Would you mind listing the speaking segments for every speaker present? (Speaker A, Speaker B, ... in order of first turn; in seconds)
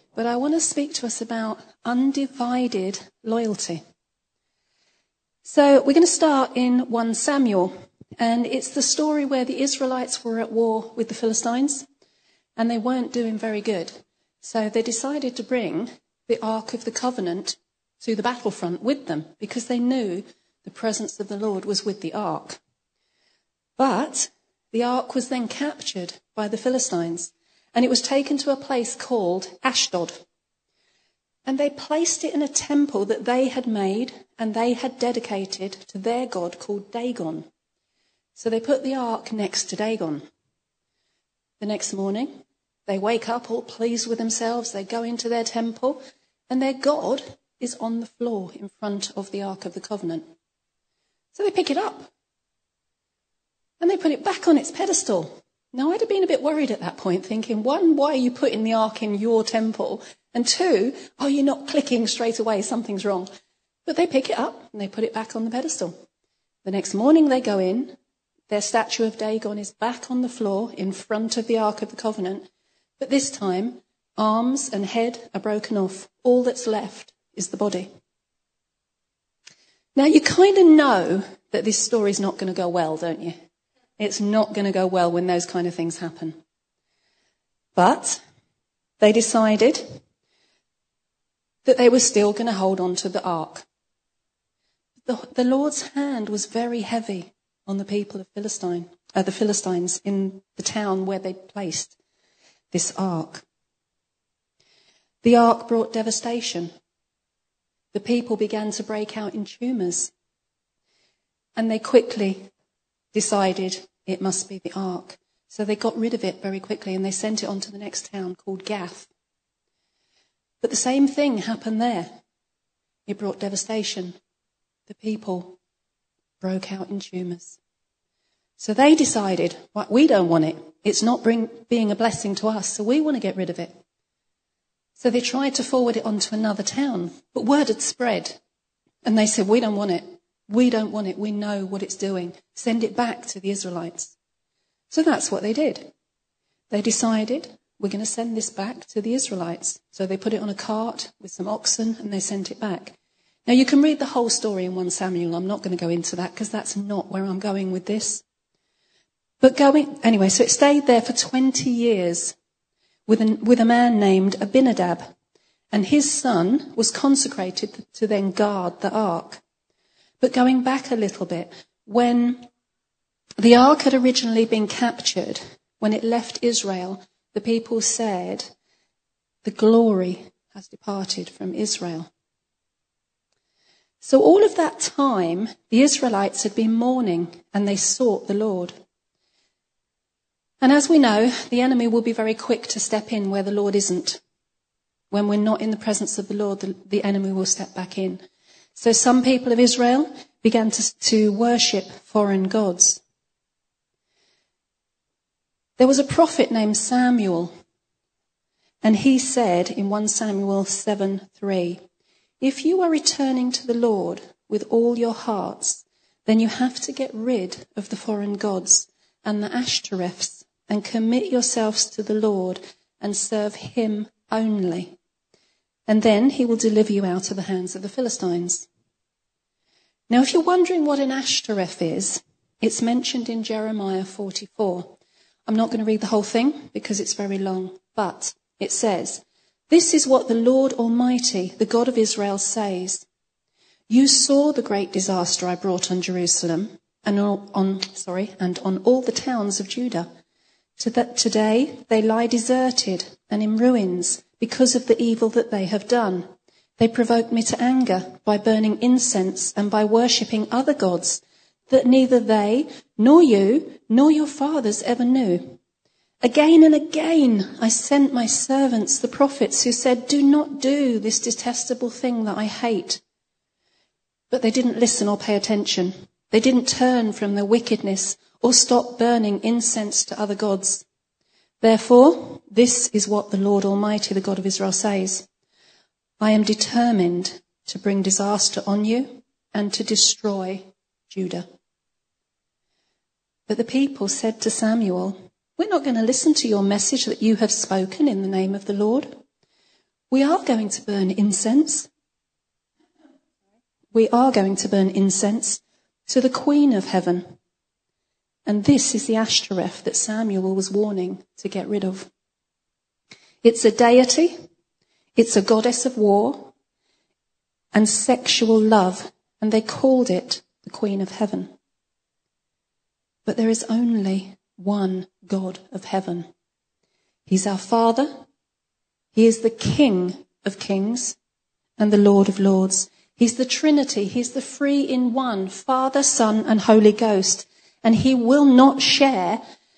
Speaker A: 0.1-3.8, 5.4-11.8, 12.6-22.6, 23.8-30.2, 31.4-37.5, 38.4-40.2, 41.6-50.3, 51.3-52.1, 53.8-63.3, 63.8-65.9, 66.6-67.9, 68.5-72.5, 73.0-77.9, 80.0-83.3, 84.0-86.4, 87.8-88.2, 89.0-89.8, 91.6-93.6, 95.0-101.9, 102.7-103.4, 105.2-106.7, 107.9-110.1, 111.5-112.5, 113.1-119.1, 120.6-122.1, 123.1-124.2, 124.9-125.5, 126.4-127.6, 128.6-133.8, 135.0-138.4, 139.0-144.1, 144.9-145.9, 146.7-152.9, 153.5-158.2, 159.4-162.3, 163.1-165.1, 165.7-169.4, 170.2-172.4, 173.4-178.5, 179.4-182.1, 184.0-188.8, 190.6-194.2, 195.1-198.2, 198.8-203.0, 205.8-207.5, 208.8-211.8, 212.4-224.9, 225.9-228.7, 230.1-234.9, 235.5-243.0, 243.9-250.1, 250.8-265.5, 266.2-273.0, 274.3-280.8, 281.6-285.2, 286.2-291.4, 293.5-299.1, 300.1-301.9, 303.9-307.2, 308.4-312.1, 313.4-314.3, 315.1-316.5, 317.7-321.5, 323.2-326.3, 327.3-328.1, 329.1-331.2, 331.8-339.4